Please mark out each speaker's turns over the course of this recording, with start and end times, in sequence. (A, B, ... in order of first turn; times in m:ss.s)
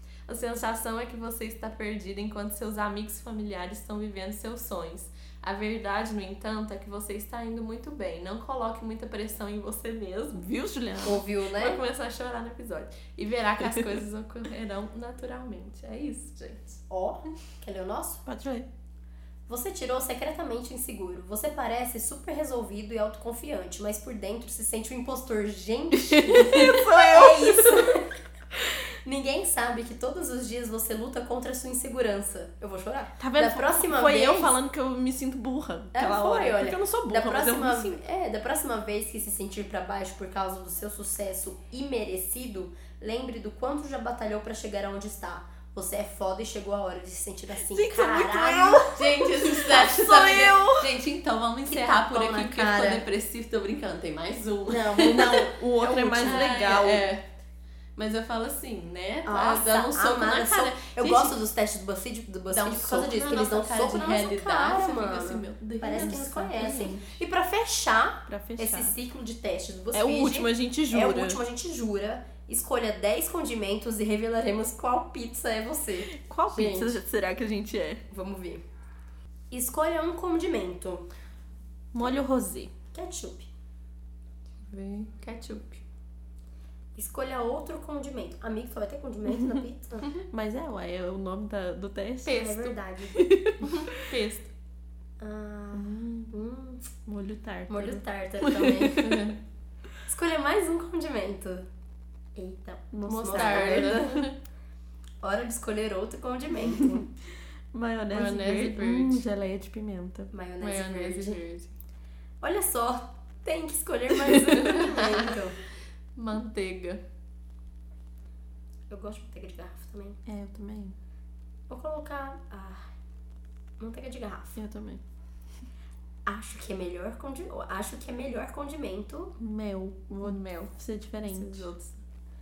0:00.3-0:10.6 A
0:10.4-0:11.2 B
0:11.0-0:11.8 C
0:11.6-0:16.8 A
0:16.9-0:18.2 C
0:18.3-0:18.7 B
0:19.5-0:28.1 C
0:26.1-0:27.9 B
0:29.0-0:34.5 C
0:33.2-0:38.0 B
0:35.9-0:49.2 C
0:47.6-0:50.9 B
0:48.8-0:57.2 A
0:51.7-0:53.0 C
0:54.7-0:55.6 C
0:55.0-0:57.1 B
0:56.2-0:56.6 C
0:58.0-1:01.4 A
0:59.3-1:17.0 C
1:02.5-1:06.6 A
1:05.9-1:07.1 B
1:08.3-1:09.0 B
1:09.9-1:11.4 B
1:16.1-1:18.0 B
1:18.1-1:18.6 C
1:19.5-1:21.1 C
1:21.9-1:22.7 B
1:22.9-1:23.5 C
1:24.7-1:25.8 A
1:27.0-1:30.1 C
1:30.3-1:32.5 B
1:32.3-1:32.8 A
1:32.3-1:33.2 C
1:33.2-1:33.7 B
1:33.6-1:34.5 A
1:35.2-1:36.9 C
1:35.7-1:36.3 B
1:37.1-1:39.3 B
1:37.7-1:39.0 C
1:38.9-1:39.4 A
1:40.0-1:41.7 C
1:42.4-1:44.0 C
1:42.9-1:44.3 B
1:43.1-1:44.3 A
1:45.2-1:47.1 C
1:46.7-1:47.0 B
1:47.7-1:50.3 B
1:48.1-1:49.2 A
1:50.3-1:51.4 C
1:50.6-1:51.7 A
1:52.4-1:55.6 C
1:54.6-1:55.4 A
1:56.2-1:57.0 A
1:58.9-2:00.2 C
2:00.3-2:01.0 B
2:01.7-2:02.9 C
2:03.8-2:04.6 C
2:04.6-2:05.0 B
2:06.3-2:09.4 C
2:09.4-2:11.7 B
2:10.2-2:10.7 A
2:11.3-2:12.0 A